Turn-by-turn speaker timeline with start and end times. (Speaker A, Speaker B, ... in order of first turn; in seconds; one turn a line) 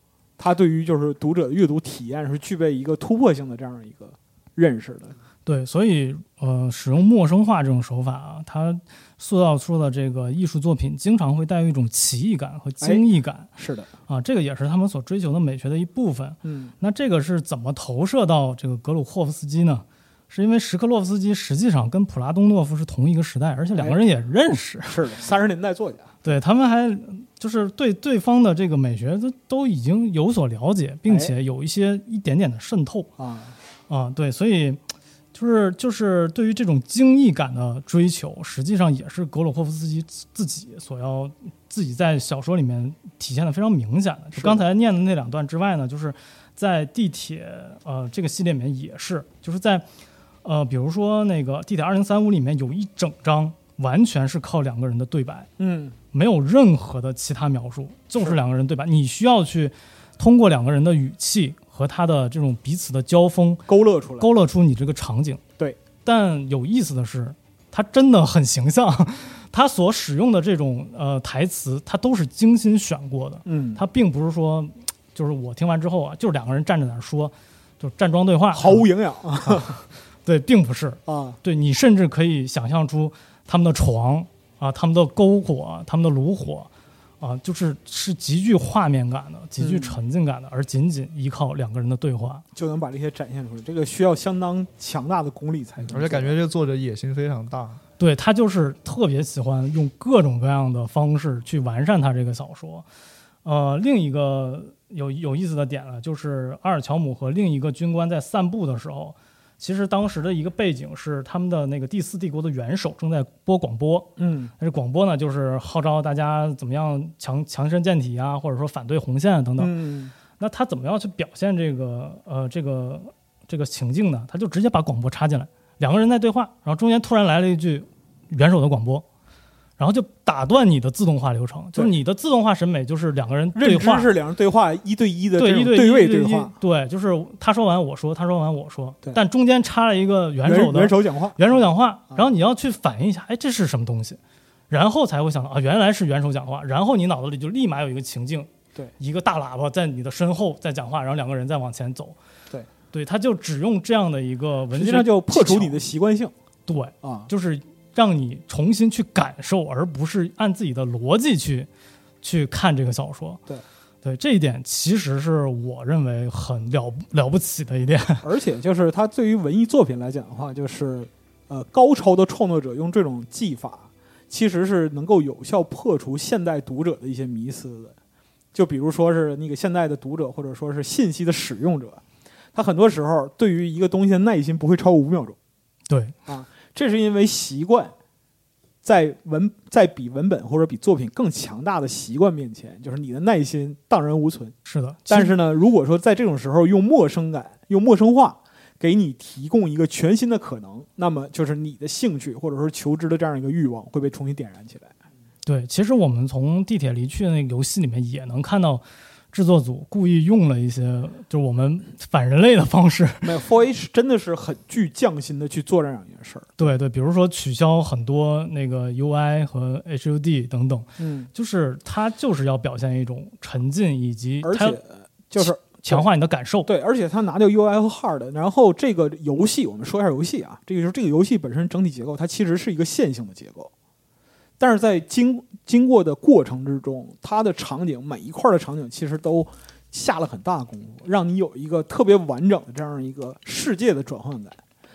Speaker A: 0.4-5.2
Speaker B: 5.5-13.5
Speaker A: 13.6-13.9
Speaker B: 14.1-25.0
Speaker A: 16.4-16.8
Speaker A: 24.9-26.1
Speaker B: 26.2-33.1
Speaker A: 33.2-33.6
Speaker B: 33.9-34.8
Speaker B: 35.3-49.9
Speaker A: 44.4-44.6
Speaker B: 50.4-55.5
Speaker A: 55.6-56.0
Speaker B: 56.1-63.7
Speaker A: 63.7-64.3
Speaker B: 64.2-65.4
Speaker B: 66.0-78.9
Speaker A: 73.5-73.8
Speaker A: 78.5-79.8
Speaker B: 80.2-86.7
Speaker A: 81.1-81.4
Speaker B: 87.2-92.4
Speaker A: 89.6-90.0
Speaker A: 92.5-96.3
Speaker C: 95.9-97.8
Speaker B: 98.0-102.8
Speaker B: 103.5-119.7
Speaker A: 114.2-114.5
Speaker A: 119.6-120.1
Speaker B: 120.3-129.1
Speaker B: 129.8-134.1
Speaker A: 133.6-136.5
Speaker B: 135.4-144.2
Speaker A: 140.4-141.4
Speaker B: 144.7-152.2
Speaker B: 152.9-155.8
Speaker A: 154.7-156.3
Speaker B: 156.7-161.7
Speaker A: 157.0-157.3
Speaker B: 162.2-163.4
Speaker B: 164.0-168.3
Speaker A: 168.2-177.9
Speaker A: 178.5-182.0
Speaker A: 182.5-185.4
Speaker B: 185.9-186.2
Speaker A: 186.3-187.9
Speaker A: 188.8-194.6
Speaker B: 194.7-195.4
Speaker A: 195.1-204.9
Speaker B: 205.4-213.3
Speaker A: 213.2-216.5
Speaker B: 216.6-224.8
Speaker A: 221.0-221.3
Speaker A: 224.4-226.1
Speaker B: 225.4-226.7
Speaker A: 226.7-233.7
Speaker A: 234.6-244.6